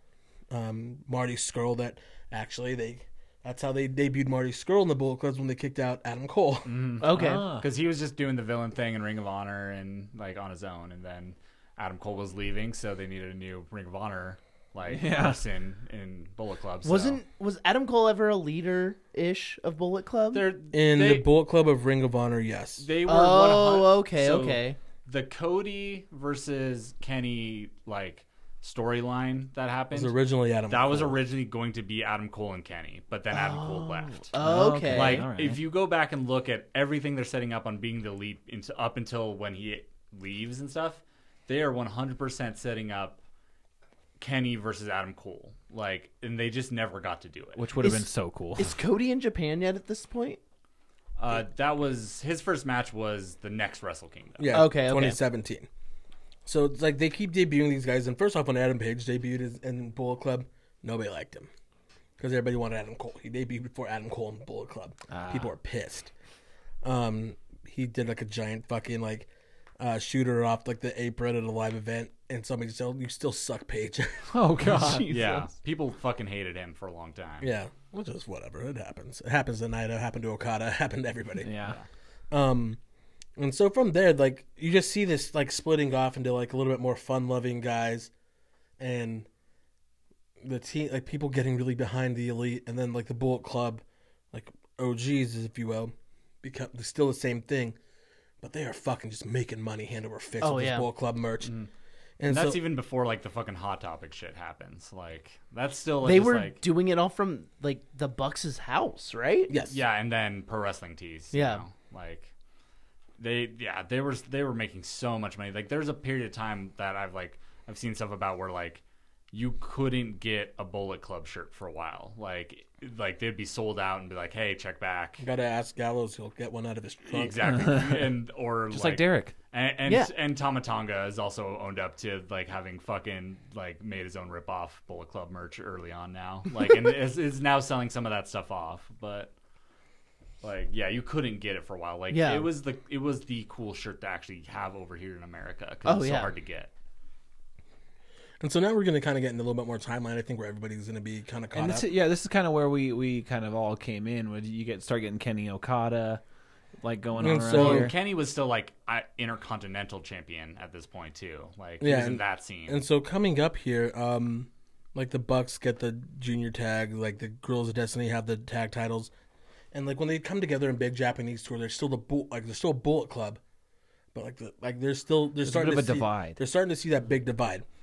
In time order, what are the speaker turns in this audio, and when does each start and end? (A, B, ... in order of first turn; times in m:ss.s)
0:00.5-0:06.9 A
0:06.6-0:17.2 B
0:07.0-0:07.5 C
0:07.1-0:07.7 D
0:14.9-0:15.4 D
0:16.8-0:20.5 C
0:20.3-0:21.3 B
0:20.7-0:22.9 A
0:22.8-0:30.2 B
0:23.1-0:24.8 C
0:29.9-0:31.2 A
0:30.7-0:34.3 B
0:33.3-0:35.3 C
0:34.4-0:35.6 D
0:34.8-0:43.2 B
0:44.2-0:47.7 B
0:47.6-0:48.8 D
0:47.8-0:50.4 C
0:51.2-0:54.6 B
0:54.4-0:55.7 A
0:54.5-0:55.2 C
0:56.4-1:01.5 A
1:02.2-1:06.1 A
1:05.1-1:05.5 D
1:06.8-1:09.3 A
1:09.8-1:14.3 A
1:14.3-1:15.3 D
1:14.7-1:15.5 C
1:14.8-1:17.5 B
1:17.4-1:21.5 A
1:21.4-1:21.8 D
1:22.3-1:22.8 A
1:23.4-1:28.1 A
1:28.8-1:29.3 A
1:30.4-1:37.8 A
1:38.4-1:41.5 A
1:40.4-1:40.9 C
1:41.4-1:41.7 B
1:42.2-1:42.6 A
1:42.3-1:46.6 B
1:46.0-1:49.5 C
1:49.5-1:49.8 A
1:49.7-1:52.3 B
1:51.3-1:51.6 C
1:53.2-2:05.3 B
2:05.2-2:07.7 A
2:07.1-2:19.3 B
2:07.5-2:08.0 D
2:08.7-2:09.3 D
2:20.4-2:26.7 B
2:22.1-2:22.5 C
2:25.8-2:26.3 C
2:28.4-2:31.9 A
2:31.6-2:36.2 D
2:36.8-2:38.0 D
2:37.2-2:37.9 A
2:37.5-2:42.8 B
2:41.8-2:49.1 A
2:49.7-2:53.4 A
2:54.1-2:57.6 A
2:55.4-2:56.4 D